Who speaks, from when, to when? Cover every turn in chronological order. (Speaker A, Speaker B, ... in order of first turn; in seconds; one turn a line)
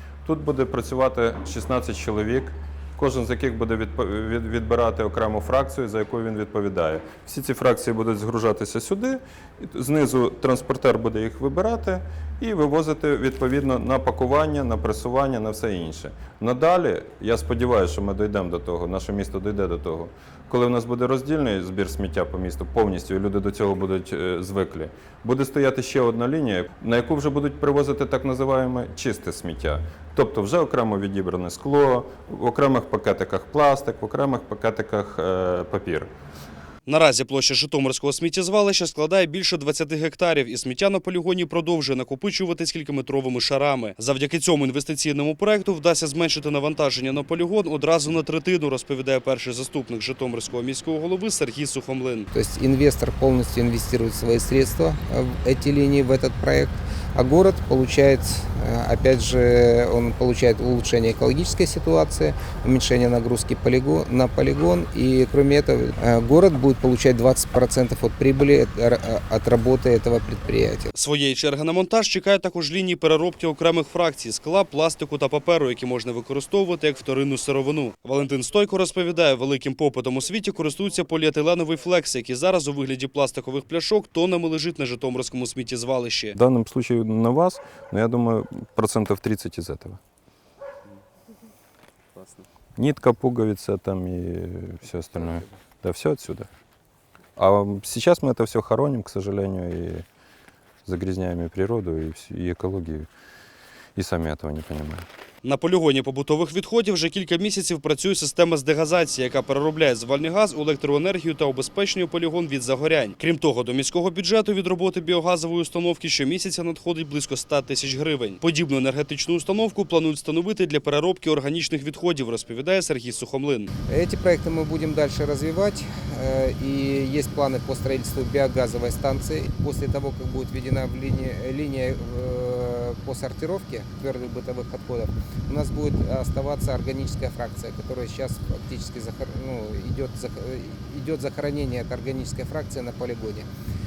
Speaker A: 0.2-36.1
Speaker B: 36.9-52.3
Speaker C: 52.3-70.9
Speaker B: 70.9-86.4
Speaker A: 86.3-90.0
Speaker B: 92.2-92.4
Speaker A: 92.8-96.5
Speaker A: 97.3-100.0
Speaker A: 100.8-103.1
Speaker A: 104.0-105.1
Speaker B: 105.4-123.7
Speaker C: 123.9-143.5